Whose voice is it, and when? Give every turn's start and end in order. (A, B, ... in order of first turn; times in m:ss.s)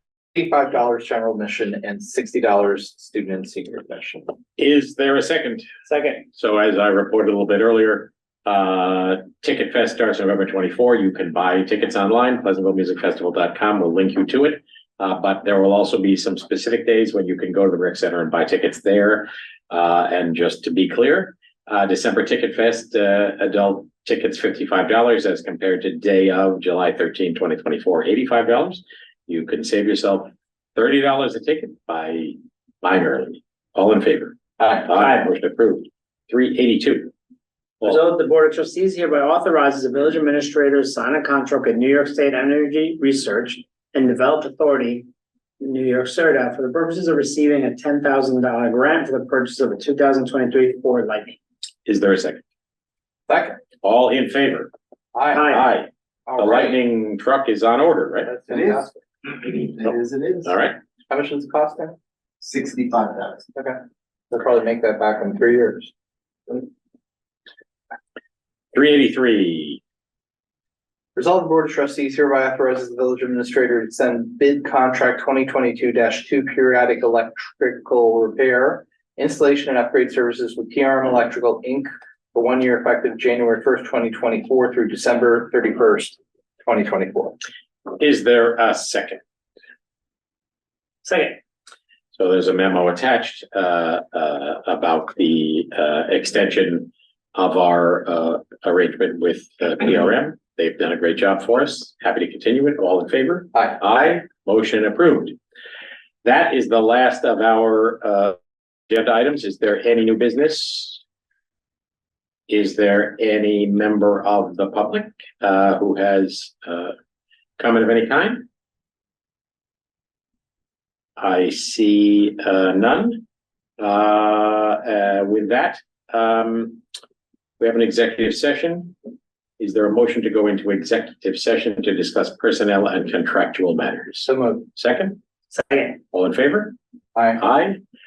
0:00.4-0:04.4 A
0:04.6-0:05.7 B
0:05.9-0:06.3 C
0:06.3-0:37.1 B
0:37.8-0:45.1 C
0:45.6-0:51.4 C
0:51.8-0:52.4 B
0:53.3-0:53.6 A
0:53.8-0:54.7 B
0:55.1-0:55.6 A
0:55.3-0:55.7 C
0:55.4-0:58.3 B
0:56.3-0:56.8 A
0:58.2-0:58.9 A
0:58.5-1:00.6 D
1:00.4-1:00.8 B
1:01.1-1:02.0 A
1:02.4-1:03.5 D
1:04.3-1:05.9 A
1:08.7-1:09.8 B
1:11.2-1:27.4 A
1:28.0-1:29.2 B
1:31.0-1:31.4 C
1:32.2-1:45.4 B
1:43.5-1:43.8 A
1:46.2-1:48.4 B
1:48.9-1:51.0 B
1:52.5-1:57.0 B
1:57.6-1:58.5 B
2:01.2-2:03.2 B
2:03.8-2:06.8 B
2:07.6-2:09.0 B
2:09.6-2:15.2 B
2:14.2-2:14.7 A
2:15.5-2:16.0 C
2:16.1-2:16.8 B
2:17.2-2:17.4 A
2:17.4-2:17.8 B